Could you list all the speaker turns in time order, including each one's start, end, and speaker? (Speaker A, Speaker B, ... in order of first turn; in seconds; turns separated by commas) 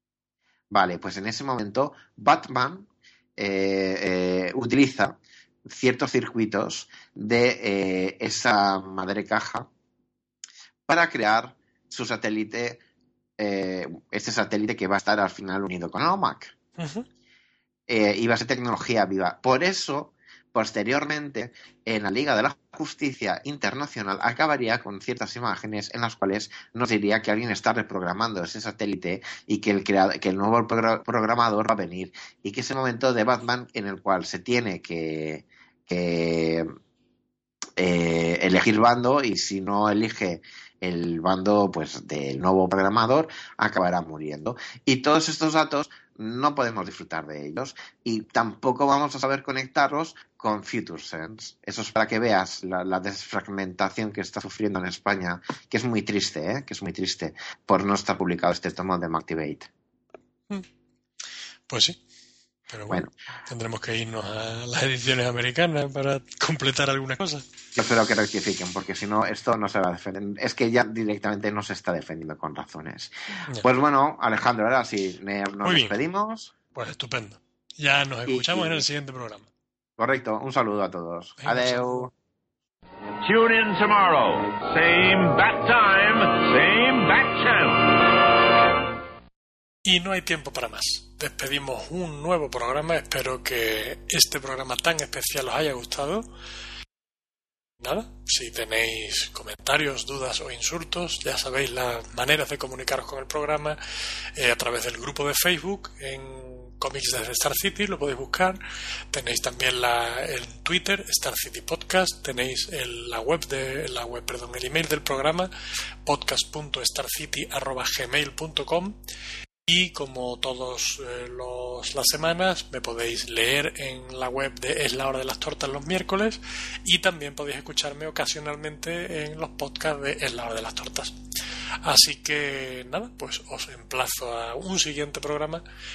Speaker A: 0.7-9.7, Speaker A: 10.9-12.8, Speaker A: 13.4-16.5, Speaker B: 16.8-17.1, Speaker A: 17.9-36.7, Speaker A: 37.8-59.7, Speaker B: 61.7-62.0, Speaker B: 62.7-67.5, Speaker A: 67.8-76.5, Speaker B: 75.6-76.0, Speaker B: 76.7-79.5, Speaker A: 78.3-78.8, Speaker A: 80.0-82.1, Speaker B: 81.4-82.1, Speaker C: 83.2-88.0, Speaker B: 89.8-96.3, Speaker B: 97.8-103.8, Speaker B: 104.3-108.6, Speaker B: 109.1-115.5, Speaker B: 116.0-119.0, Speaker B: 119.7-131.2, Speaker B: 131.8-135.6